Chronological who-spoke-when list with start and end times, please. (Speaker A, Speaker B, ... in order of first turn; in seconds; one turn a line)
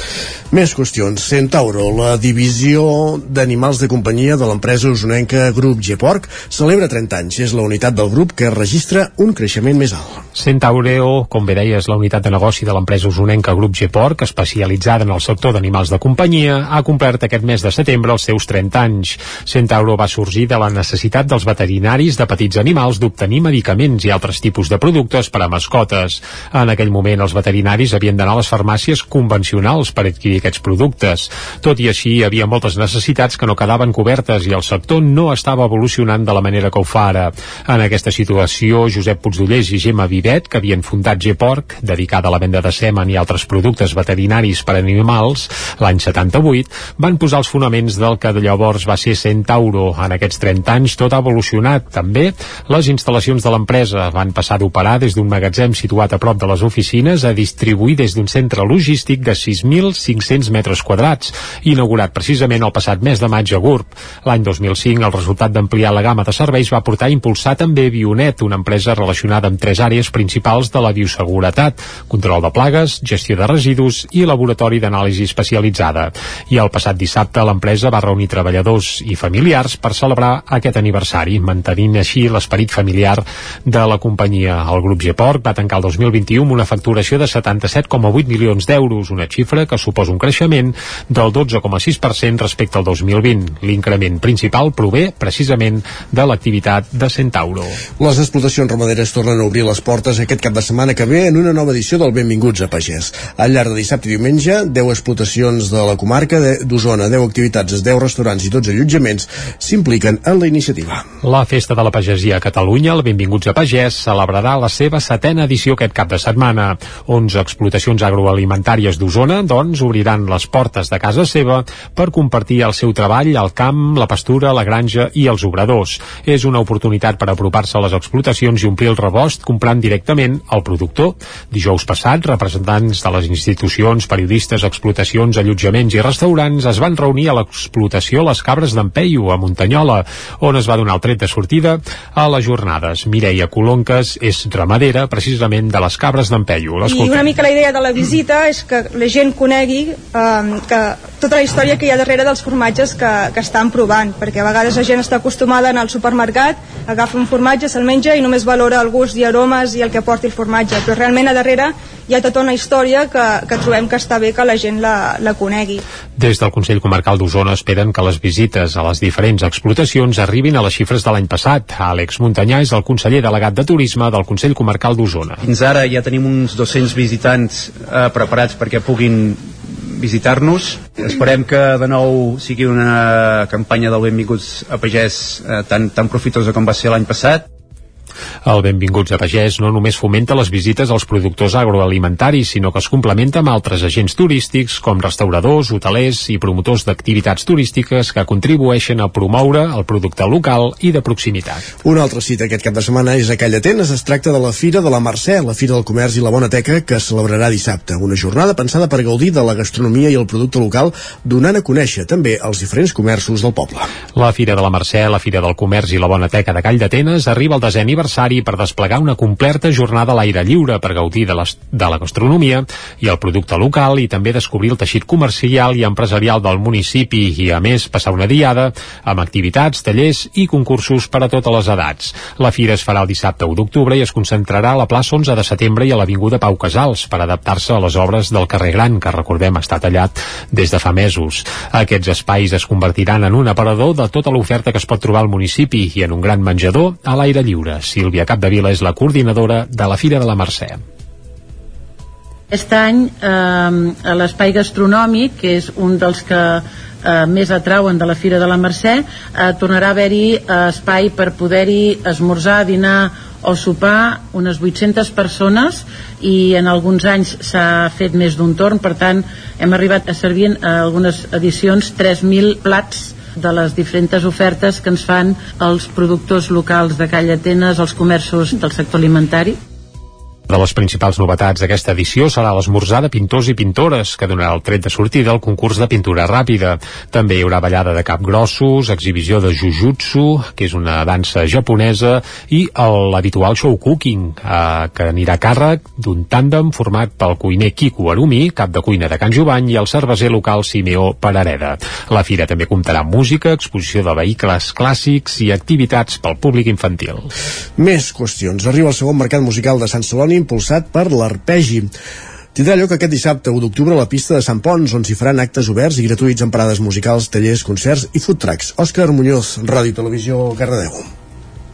Speaker A: 0.5-10.2
Speaker B: 10.3-97.8
Speaker A: 98.0-111.0
Speaker B: 111.2-147.3
Speaker C: 146.8-165.8
Speaker B: 166.2-175.4
Speaker D: 175.4-187.5
Speaker B: 188.5-201.6
Speaker A: 201.8-213.9
Speaker B: 214.2-250.8
Speaker E: 252.5-279.6
Speaker B: 280.5-307.3
Speaker A: 307.8-311.9
Speaker A: 312.6-321.1